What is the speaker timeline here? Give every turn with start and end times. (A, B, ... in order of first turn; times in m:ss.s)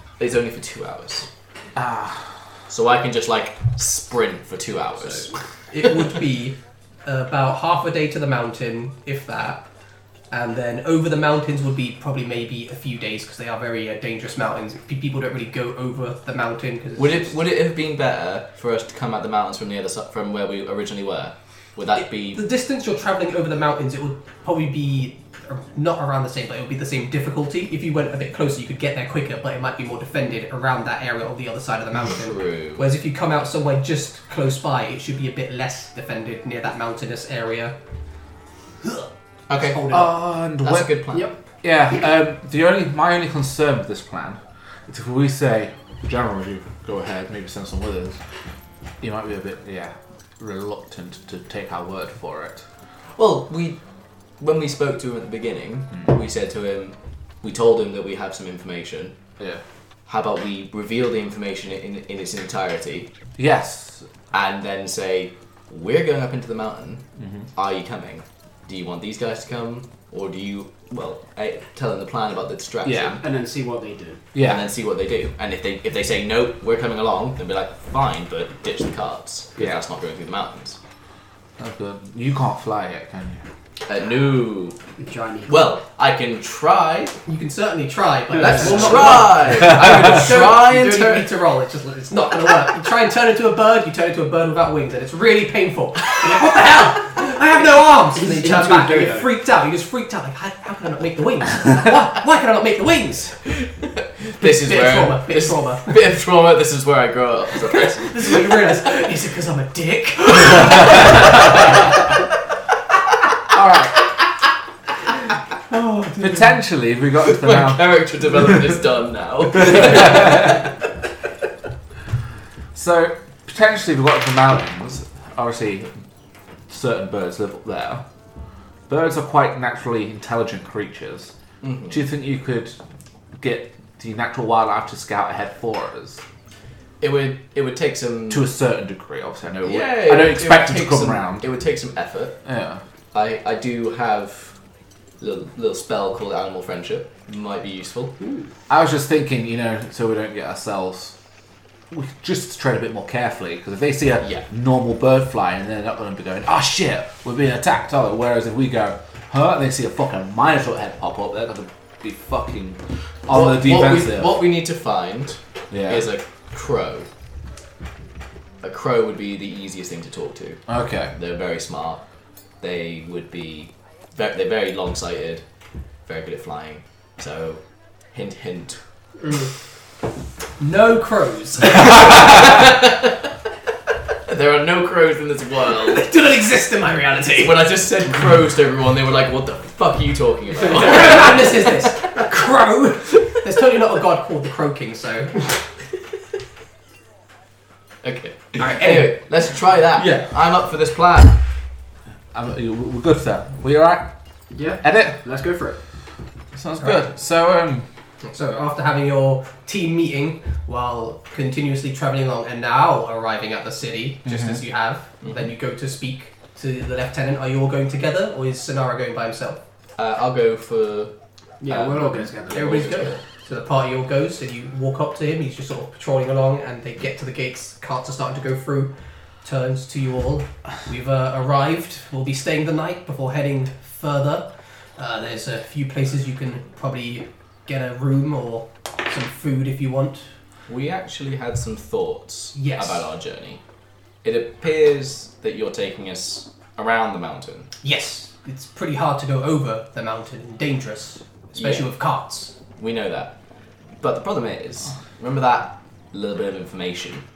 0:00.2-0:01.3 A
0:01.8-0:02.3 B
0:02.7-0:05.3 A
0:05.1-0:09.6 C
0:10.3-0:17.4 C
0:17.0-0:22.4 A
0:22.0-0:37.7 C
0:32.1-0:32.8 A
0:38.8-0:40.1 C
0:39.5-0:40.0 A
0:39.9-0:40.9 B
0:40.6-0:41.4 A
0:41.6-0:48.2 B
0:49.0-0:52.6 B
0:53.2-0:53.8 A
0:54.4-0:59.2 A
1:00.1-1:03.1 A
1:03.4-1:04.1 B
1:04.3-1:07.0 A
1:07.2-1:07.4 B
1:07.6-1:13.2 A
1:12.8-1:13.2 B
1:13.2-1:14.2 D
1:14.3-1:14.7 B
1:14.4-1:20.8 A
1:21.6-1:23.4 B
1:23.8-1:24.8 A
1:25.0-1:25.7 D
1:25.4-1:27.2 A
1:27.2-1:43.4 C
1:28.3-1:29.3 D
1:28.4-1:31.3 A
1:29.5-1:30.1 B
1:38.1-1:39.3 D
1:44.0-1:48.6 A
1:44.4-1:46.0 C
1:47.7-1:51.6 C
1:53.5-1:54.0 B
1:55.8-1:56.3 C
1:56.1-1:58.7 B
1:57.2-2:00.7 A
1:59.5-2:00.6 B
2:02.7-2:05.9 B
2:06.7-2:08.0 B
2:08.9-2:11.3 B
2:11.6-2:12.0 A
2:11.9-2:12.8 B
2:13.4-2:16.2 B
2:17.0-2:18.4 A
2:18.3-2:21.4 B
2:19.6-2:22.4 A
2:22.4-2:22.8 B
2:23.1-2:24.5 A
2:25.2-2:28.2 A
2:28.2-2:28.5 D
2:28.7-2:31.1 B
2:31.9-2:44.4 B
2:43.3-2:47.1 A
2:45.7-2:46.1 B
2:48.6-2:50.6 A
2:50.7-2:51.1 B
2:51.1-2:52.0 A
2:52.6-2:55.4 A
2:56.0-2:58.8 A
2:59.2-2:59.5 C
3:00.6-3:02.7 C
3:02.2-3:03.2 A
3:04.3-3:06.1 A
3:05.8-3:07.7 C
3:07.4-3:11.7 A
3:10.6-3:15.6 C
3:18.0-3:21.4 A
3:18.6-3:19.2 C
3:19.9-3:20.3 C
3:22.3-3:24.1 B
3:24.5-3:25.8 D
3:24.8-3:25.2 B
3:26.5-3:27.8 B
3:28.2-3:39.6 C
3:34.2-3:34.6 B
3:35.2-3:35.5 A
3:40.0-3:41.1 A
3:41.6-3:43.1 D
3:41.6-3:43.2 A
3:42.5-4:00.2 C
4:00.7-4:03.6 A
4:02.5-4:03.1 C
4:04.2-4:07.7 A
4:07.8-4:12.6 C
4:11.6-4:11.9 A
4:12.8-4:13.4 A
4:14.0-4:17.2 A